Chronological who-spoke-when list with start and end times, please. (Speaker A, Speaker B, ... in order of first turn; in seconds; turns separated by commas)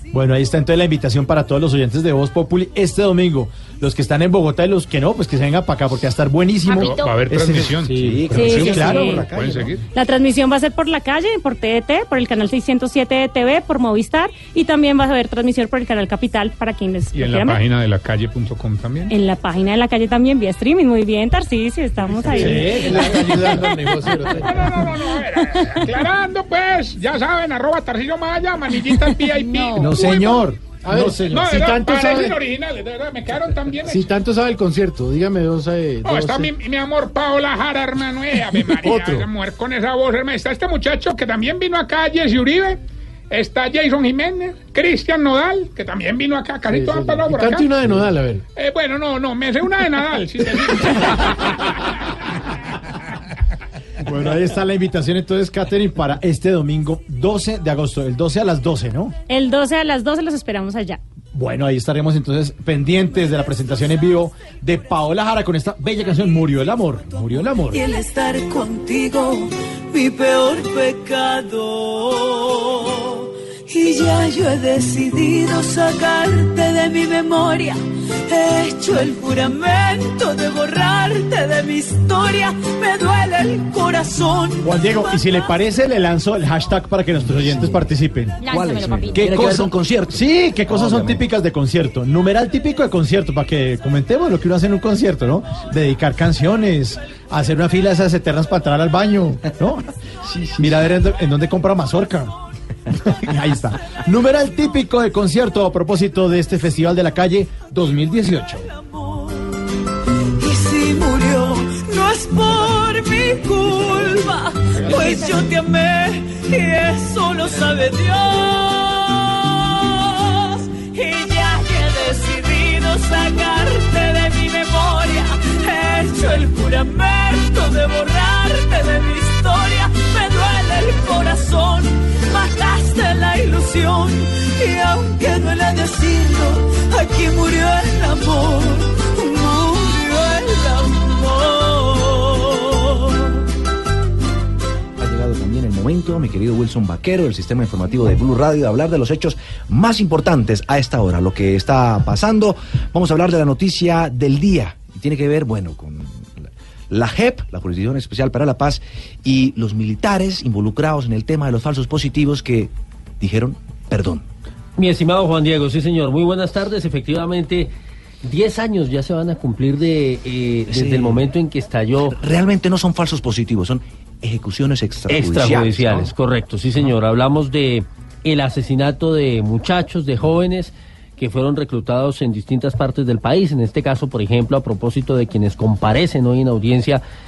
Speaker A: 0.1-9.2, Speaker B: 6.7-9.8, Speaker C: 8.0-9.7, Speaker D: 8.3-9.2, Speaker D: 9.9-17.6, Speaker B: 17.1-19.1, Speaker D: 19.1-23.2, Speaker A: 22.4-23.8, Speaker E: 22.4-24.7, Speaker B: 24.4-30.4, Speaker A: 29.8-31.8, Speaker E: 30.8-32.4, Speaker B: 31.3-34.2, Speaker E: 33.9-36.5, Speaker B: 36.0-47.8, Speaker E: 38.7-39.2, Speaker E: 46.7-48.4, Speaker B: 48.5-51.8, Speaker A: 54.0-59.1, Speaker D: 59.3-61.0, Speaker A: 61.3-67.8, Speaker F: 67.4-85.6, Speaker A: 84.6-88.4, Speaker C: 87.4-87.8, Speaker C: 88.5-91.2, Speaker A: 89.1-99.8, Speaker C: 100.3-100.8, Speaker A: 100.6-102.3, Speaker A: 103.2-108.6, Speaker F: 108.5-109.6, Speaker F: 110.4-143.2, Speaker C: 145.0-164.2, Speaker G: 164.8-167.7, Speaker G: 168.2-172.2, Speaker C: 170.7-171.2, Speaker C: 172.0-176.1, Speaker G: 175.1-187.0